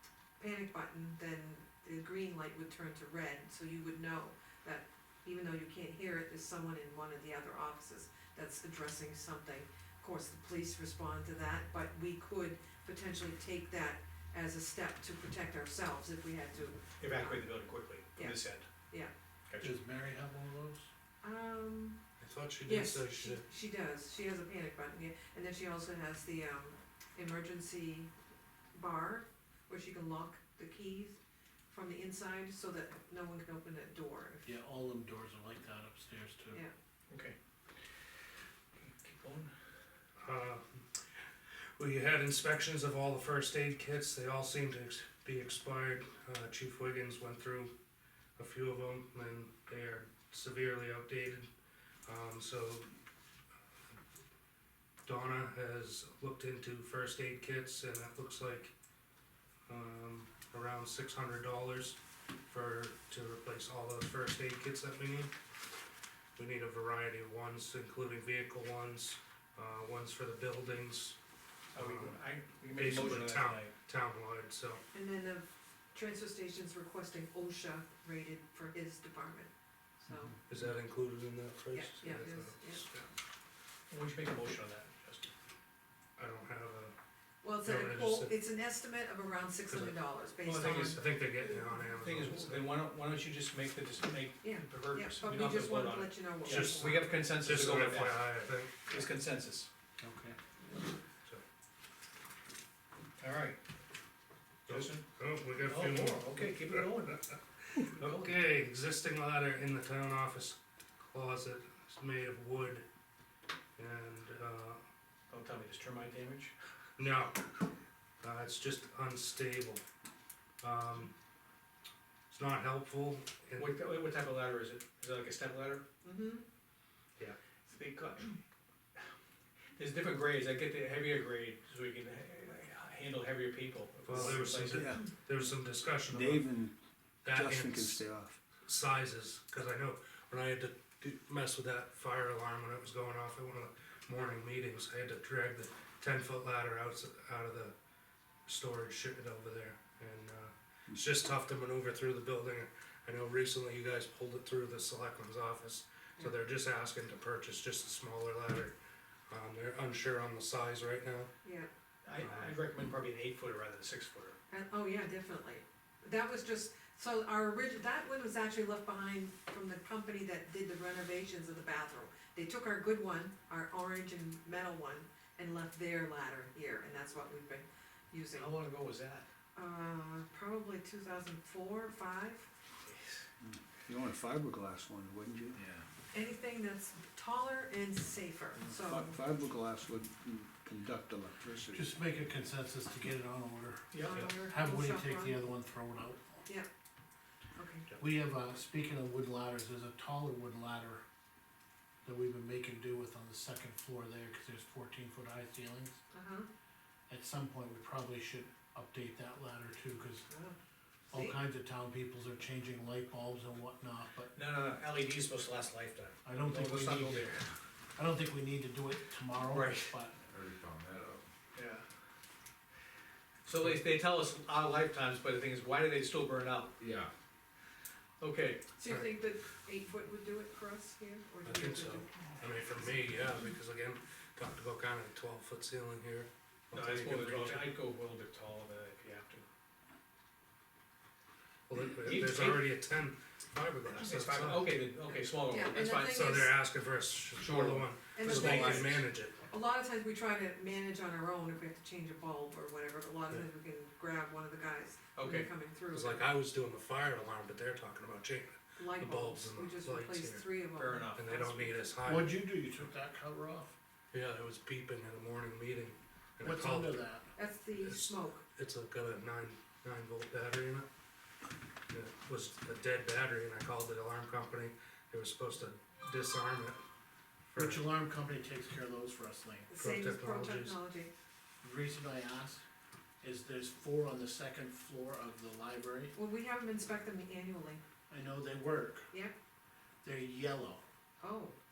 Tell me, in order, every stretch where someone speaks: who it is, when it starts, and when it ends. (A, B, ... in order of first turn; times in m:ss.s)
0:00.4-0:17.4 A
0:17.0-0:18.7 B
0:18.2-0:19.1 A
0:19.5-0:19.8 B
0:19.6-0:20.9 C
0:21.2-0:22.0 A
0:22.2-0:23.4 D
0:22.6-0:28.1 A
0:28.7-0:31.2 A
0:31.7-0:34.5 A
0:34.4-0:36.6 C
0:37.1-0:37.4 B
0:38.8-0:39.5 B
0:40.2-0:41.0 D
0:41.8-0:47.7 D
0:48.4-0:51.5 D
0:52.1-0:52.9 D
0:55.1-0:58.7 D
0:59.7-1:05.3 D
1:06.4-1:11.2 D
1:11.8-1:13.7 B
1:11.8-1:12.2 D
1:12.7-1:14.8 D
1:14.9-1:20.3 A
1:20.5-1:23.1 D
1:21.7-1:22.8 A
1:23.9-1:25.3 B
1:26.2-1:27.0 D
1:27.4-1:31.7 A
1:27.6-1:28.3 D
1:29.7-1:30.0 D
1:30.4-1:31.0 B
1:30.6-1:32.7 D
1:32.0-1:39.7 B
1:34.4-1:37.0 A
1:36.4-1:39.0 D
1:40.0-1:40.4 C
1:43.2-1:43.6 B
1:44.7-1:52.8 D
1:44.7-1:45.0 B
1:45.6-1:47.2 B
1:47.8-1:48.4 B
1:53.8-1:54.8 D
1:55.3-1:56.5 B
1:57.0-1:57.4 D
1:58.2-1:59.9 D
2:00.6-2:01.1 D
2:02.3-2:03.8 D
2:03.6-2:05.8 B
2:06.0-2:06.4 A
2:07.7-2:08.4 B
2:09.8-2:15.0 B
2:14.1-2:16.5 D
2:14.7-2:15.1 E
2:16.1-2:16.7 E
2:17.2-2:18.1 D
2:17.3-2:18.4 E
2:18.6-2:27.7 D
2:28.5-2:38.8 D
2:39.3-2:41.3 D
2:41.4-2:41.7 A
2:42.0-2:44.4 B
2:42.2-2:42.5 D
2:44.5-2:58.6 A
2:58.4-2:59.3 B
2:59.6-3:02.5 A
3:02.9-3:03.2 B
3:03.4-3:05.6 E
3:06.1-3:09.2 A
3:08.7-3:11.9 E
3:11.7-3:16.4 C
3:13.9-3:14.3 B
3:14.0-3:15.4 A
3:17.6-3:17.9 A
3:18.0-3:21.0 C
3:22.0-3:26.0 C
3:26.1-3:26.5 A
3:27.1-3:30.3 C
3:30.3-3:30.6 A
3:31.1-3:31.4 A
3:31.1-3:34.3 C
3:34.3-3:37.4 B
3:36.2-3:37.3 C
3:38.0-3:40.2 C
3:39.5-3:40.0 B
3:40.3-3:41.3 E
3:41.6-3:41.8 B
3:43.5-3:46.8 B
3:46.8-3:47.1 E
3:48.2-3:48.7 B
3:48.8-3:52.8 A
3:51.4-3:57.7 D
3:56.7-3:59.4 B
4:01.7-4:04.7 D
4:02.0-4:02.7 B
4:04.0-4:06.2 B
4:05.1-4:06.5 A
4:06.0-4:09.4 D
4:07.4-4:09.1 B
4:08.2-4:16.2 A
4:15.2-4:15.5 B
4:15.9-4:20.5 D
4:18.8-4:21.8 A
4:20.8-4:21.3 B
4:21.2-4:22.4 D
4:22.0-4:23.7 C
4:24.1-4:27.0 D
4:26.4-4:27.3 C
4:27.4-4:28.4 A
4:27.8-4:30.9 D
4:31.9-4:36.8 D
4:37.5-4:37.8 D
4:37.6-4:39.7 C
4:39.7-4:41.1 A
4:39.8-4:40.8 D
4:41.6-4:42.6 C
4:43.2-4:46.1 C
4:46.2-4:47.8 A
4:48.1-4:49.1 C
4:50.0-4:50.8 C
4:51.2-4:51.6 A